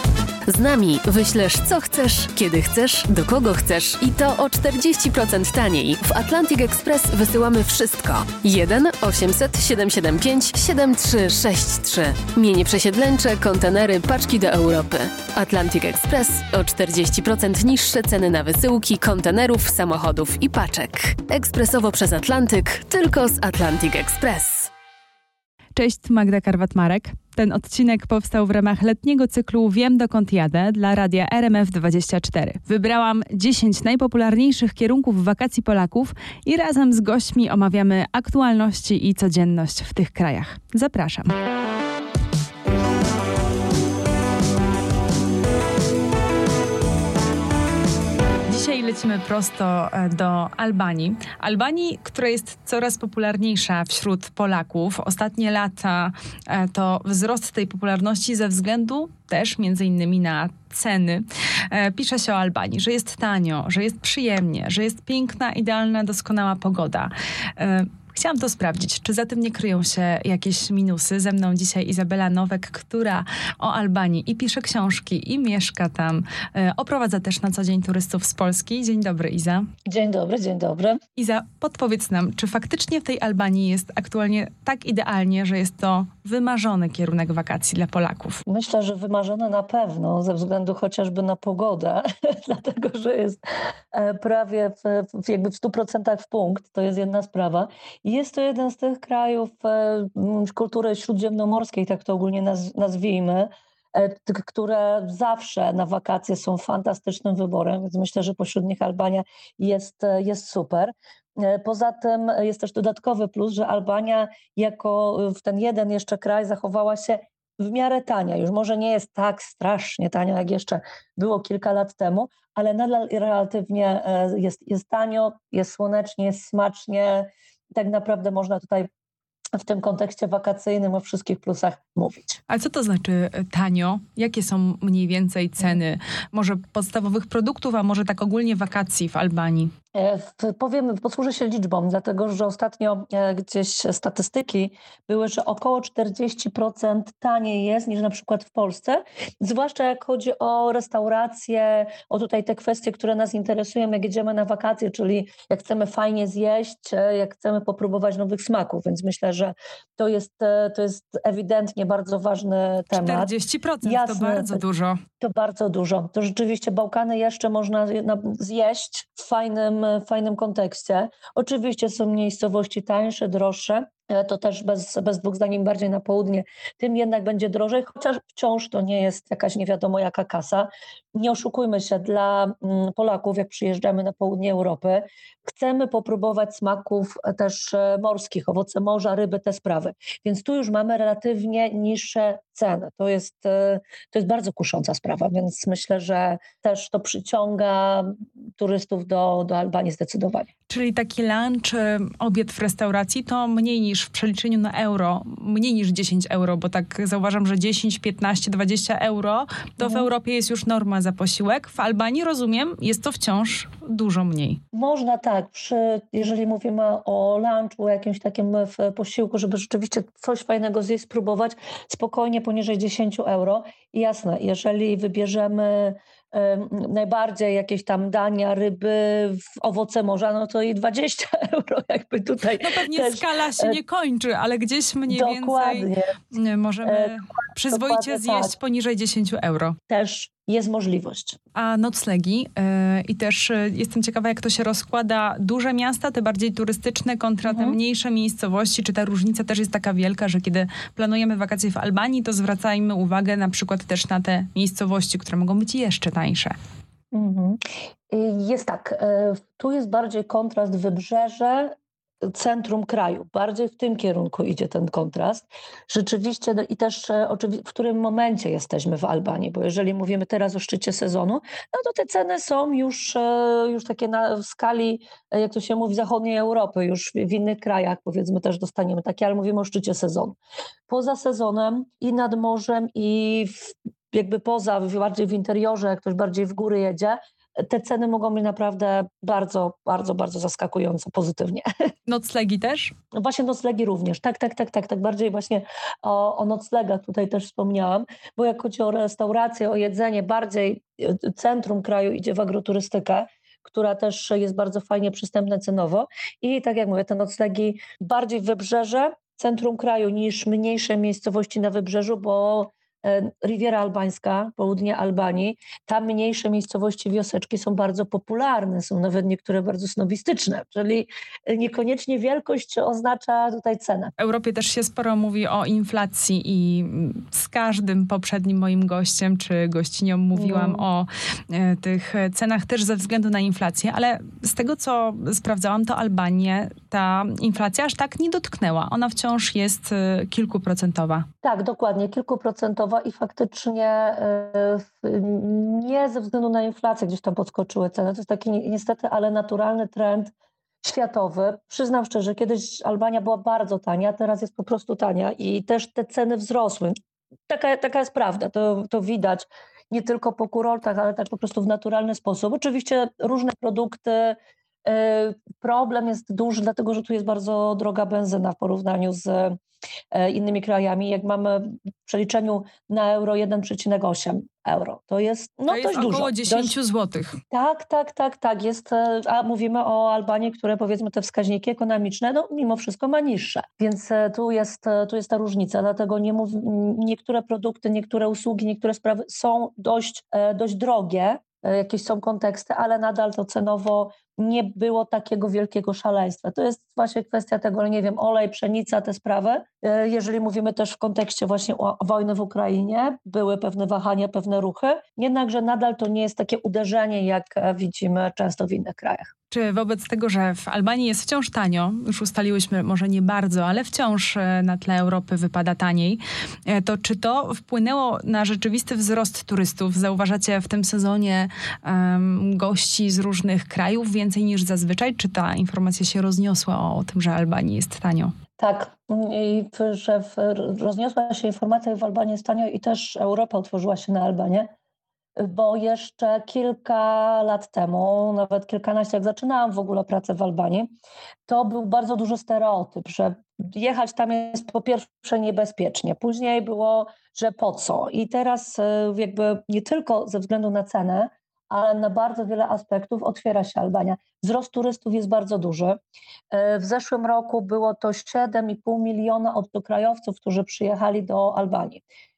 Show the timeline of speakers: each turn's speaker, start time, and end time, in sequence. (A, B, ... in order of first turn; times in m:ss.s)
0:00.5-0:24.7 A
0:25.7-0:41.4 B
0:48.4-1:19.7 B
1:19.8-1:21.0 C
1:21.2-1:28.4 B
1:28.4-1:33.4 C
1:33.9-2:08.9 C
2:09.6-2:12.4 C
2:12.5-2:19.7 B
2:19.9-2:43.3 C
2:42.9-2:45.0 B
2:43.8-2:44.6 C
2:45.2-3:20.5 C
3:20.7-3:34.6 B
3:29.8-3:30.1 C
3:34.7-3:53.8 C
3:52.6-3:59.8 B
3:55.1-3:56.2 C
3:56.8-3:58.5 C
3:59.9-4:01.4 C
4:01.5-4:16.5 B
4:07.4-4:07.8 C
4:17.1-4:40.4 C
4:40.9-4:51.6 C
4:52.0-4:52.9 B
4:53.1-5:24.1 C
5:24.2-5:41.3 B
5:30.3-5:30.8 C
5:41.4-5:57.0 C
5:57.5-6:09.6 C
6:10.1-6:16.8 C
6:15.7-6:17.4 B
6:17.5-6:49.3 C
6:49.5-7:08.3 B
7:08.6-7:14.7 C
7:15.4-7:20.9 C
7:21.5-7:36.0 C
7:36.5-7:42.0 C